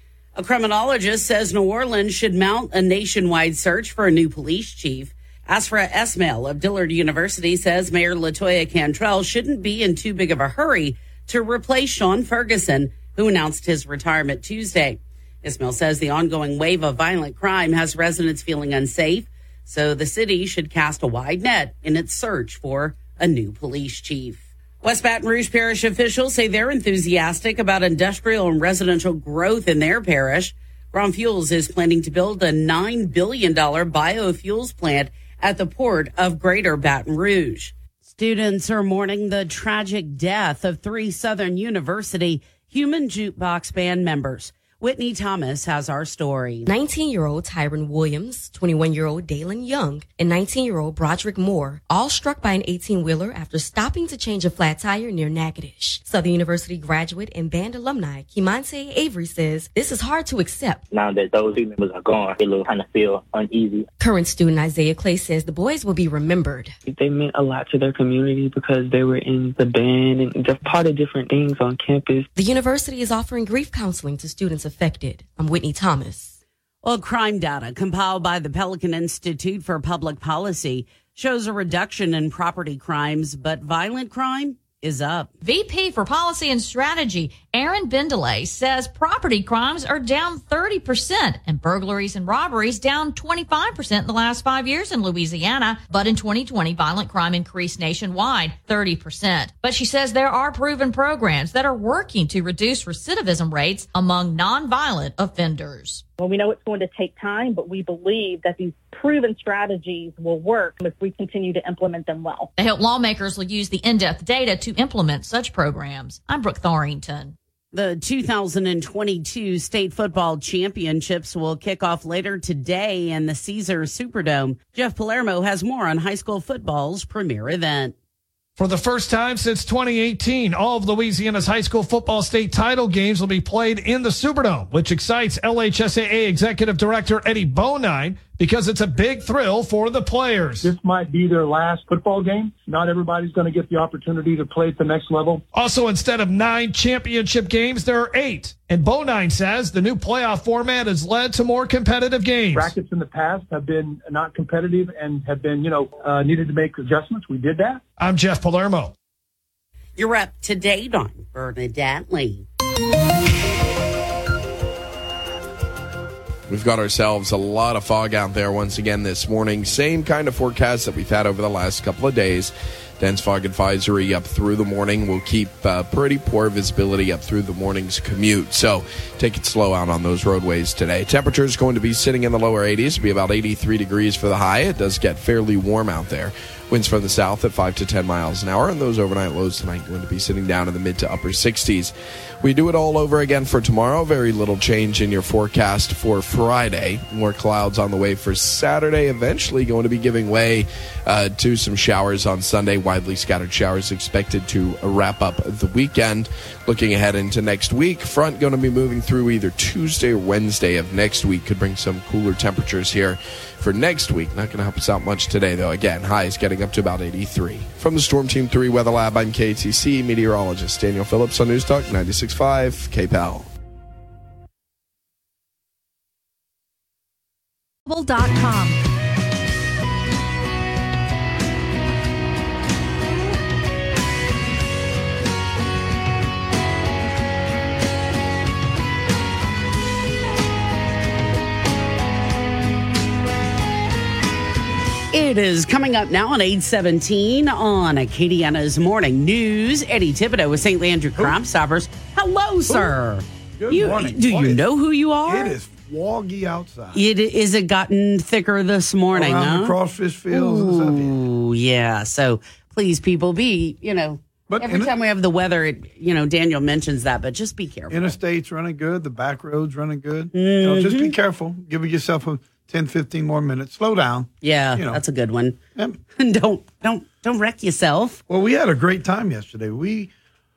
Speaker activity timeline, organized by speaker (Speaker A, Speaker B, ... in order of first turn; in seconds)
Speaker A: 0.3-46.7, 76.8-85.3, 117.7-127.9, 160.0-162.4, 245.1-255.6, 256.9-259.7, 260.3-268.2, 270.3-271.1, 274.4-275.6, 276.1-278.2
Speaker B: 46.7-60.8, 64.0-66.7, 72.3-76.3
Speaker C: 60.9-63.9
Speaker D: 66.8-72.3
Speaker E: 85.4-106.0, 112.6-117.3
Speaker F: 106.2-112.5
Speaker G: 128.6-140.7, 145.5-152.8, 158.0-158.9
Speaker H: 140.6-145.4, 152.5-157.8
Speaker I: 166.5-223.5
Speaker J: 252.7-252.9, 253.6-254.6, 255.2-257.0, 259.1-261.1, 264.5-264.9, 267.9-275.0, 278.3-280.1